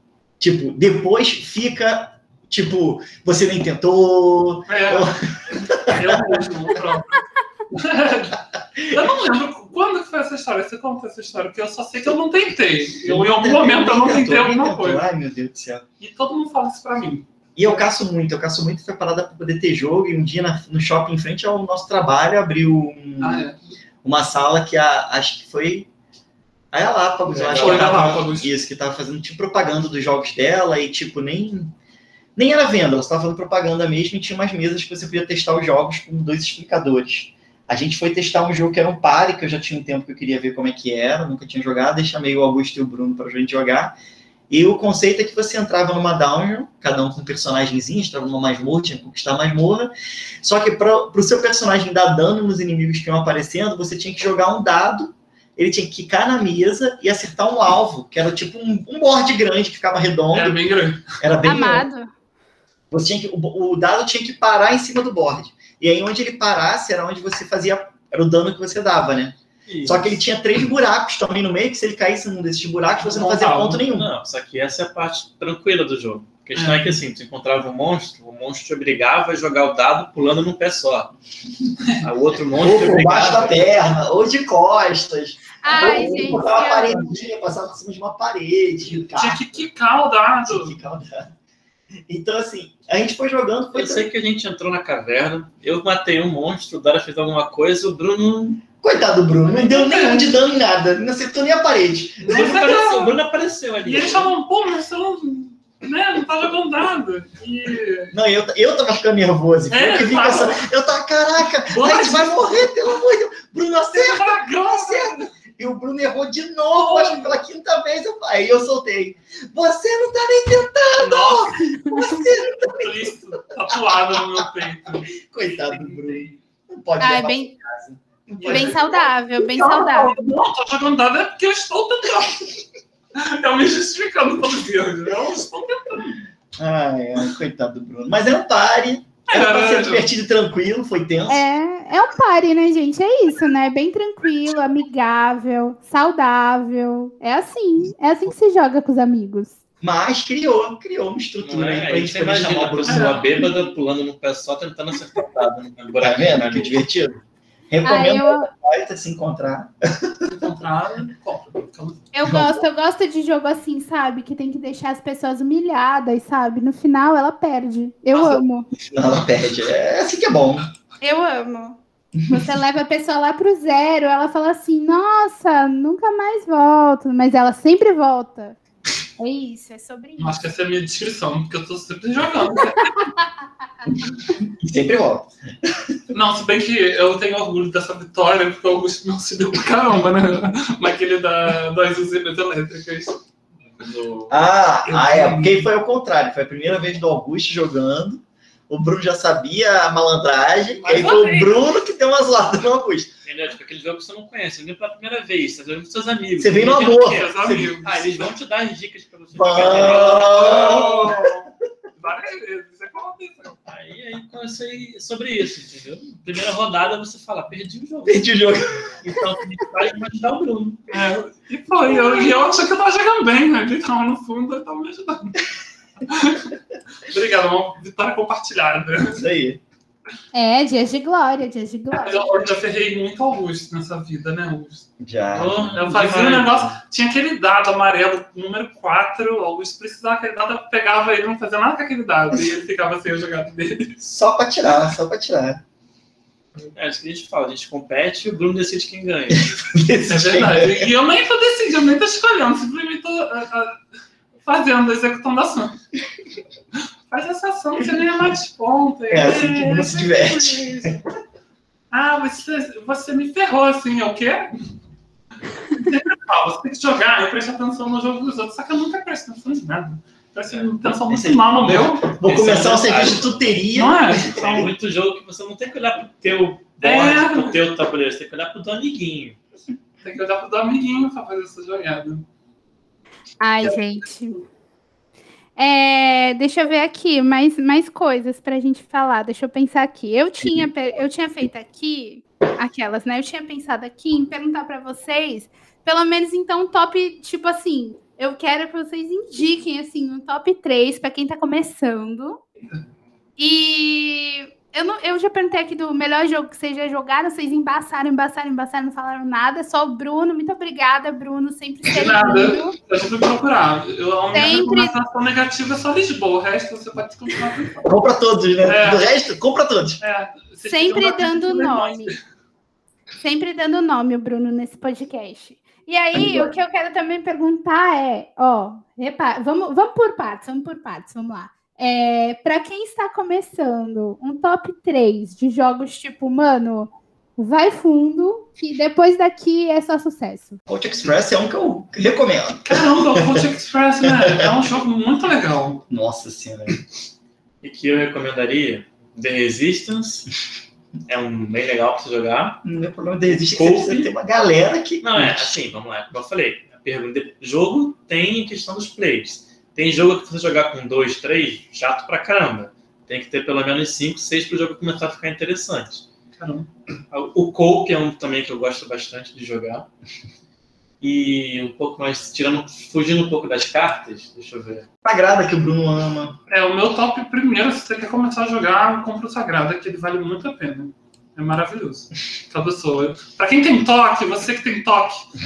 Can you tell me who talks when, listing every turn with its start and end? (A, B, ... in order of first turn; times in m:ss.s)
0:00.4-0:06.4 A
0:04.7-0:05.1 B
0:05.9-0:15.0 B
0:08.8-0:09.1 A
0:13.0-0:15.8 A
0:16.0-0:17.3 B
0:17.6-0:23.5 A
0:23.2-0:23.6 B
0:24.0-0:25.9 A
0:26.7-0:31.7 A
0:27.3-0:28.2 C
0:27.5-0:28.5 B
0:32.4-0:44.0 A
0:44.5-1:00.6 A
1:00.3-1:01.0 B
1:01.2-1:01.9 A
1:01.4-1:02.1 D
1:02.9-1:14.1 A
1:09.7-1:10.2 C
1:13.0-1:13.8 B
1:13.9-1:21.1 C
1:16.5-1:17.0 B
1:22.0-1:23.7 C
1:22.5-1:29.7 A
1:25.6-1:27.1 D
1:29.1-1:30.8 B
1:30.4-1:31.3 A
1:32.1-1:34.1 A
1:33.7-1:38.6 C
1:38.7-1:42.6 A
1:39.4-1:40.4 B
1:42.2-1:43.2 B
1:42.3-1:44.3 C
1:43.8-1:48.1 B
1:48.1-2:03.0 A
1:49.7-1:50.6 B
1:51.6-1:52.6 B
1:53.9-1:55.3 B
1:56.7-1:57.4 B
2:01.0-2:01.6 B
2:01.6-2:02.2 D
2:02.6-2:05.1 B
2:05.2-2:08.8 A
2:05.7-2:06.4 B
2:07.0-2:07.5 D
2:08.4-2:08.8 B
2:08.4-2:10.2 D
2:09.4-2:12.5 B
2:13.1-2:16.2 B
2:16.6-2:21.4 A
2:19.3-2:20.0 B
2:21.3-2:29.6 D
2:29.8-2:33.2 A
2:31.4-2:36.8 C
2:32.8-2:33.5 B
2:36.0-2:37.2 A
2:37.7-2:40.5 A
2:37.8-2:38.5 D
2:40.3-2:42.0 B
2:42.1-2:48.7 D
2:42.2-2:42.6 A
2:48.8-2:50.7 A
2:51.0-2:58.6 D
2:59.2-3:00.3 D
3:00.2-3:02.9 B
3:04.4-3:06.0 A
3:06.1-3:13.2 B
3:13.7-3:14.4 C
3:14.3-3:23.1 A
3:14.9-3:15.7 B
3:20.8-3:21.6 B
3:23.2-3:31.1 C
3:26.4-3:27.3 A
3:27.0-3:28.1 B
3:29.3-3:31.3 A
3:29.8-3:31.4 B
3:32.0-3:33.6 B
3:33.7-3:38.3 C
3:38.1-3:38.8 A
3:39.0-3:40.9 C
3:40.9-3:45.4 B
3:46.0-3:49.2 B
3:49.1-3:49.6 A
3:50.3-3:52.4 D
3:51.9-3:54.8 B
3:55.0-3:55.8 A
3:55.3-3:56.8 C
3:55.7-4:03.9 B
4:04.0-4:05.6 A
4:06.7-4:09.5 C
4:09.4-4:10.9 A
4:10.1-4:13.8 B
4:14.4-4:15.8 B
4:17.1-4:21.0 B
4:19.1-4:21.0 A
4:21.9-4:24.5 B
4:25.7-4:32.1 B
4:31.1-4:34.7 A
4:32.2-4:33.6 C
4:33.7-4:34.7 B
4:34.3-4:39.4 C
4:36.8-4:37.6 B
4:40.0-4:42.2 B
4:43.4-4:44.4 D
4:45.6-5:02.4 D
5:03.4-5:12.7 D
5:11.8-5:17.9 B
5:14.3-5:14.9 D
5:17.8-5:20.0 A
5:18.6-5:19.1 B
5:20.0-5:22.2 B
5:20.7-5:22.1 D
5:23.2-5:40.6 D
5:26.2-5:26.5 A
5:40.7-5:43.5 A
5:42.6-5:45.8 B
5:44.0-5:44.6 A
5:45.9-5:46.8 A
5:47.6-5:50.3 C
5:51.1-5:52.6 C
5:52.6-5:55.5 A
5:53.4-5:54.1 C
5:55.0-6:06.0 C
6:06.4-6:06.7 B
6:07.1-6:09.9 C
6:11.0-6:14.9 C
6:15.0-6:16.4 A
6:16.5-6:25.2 B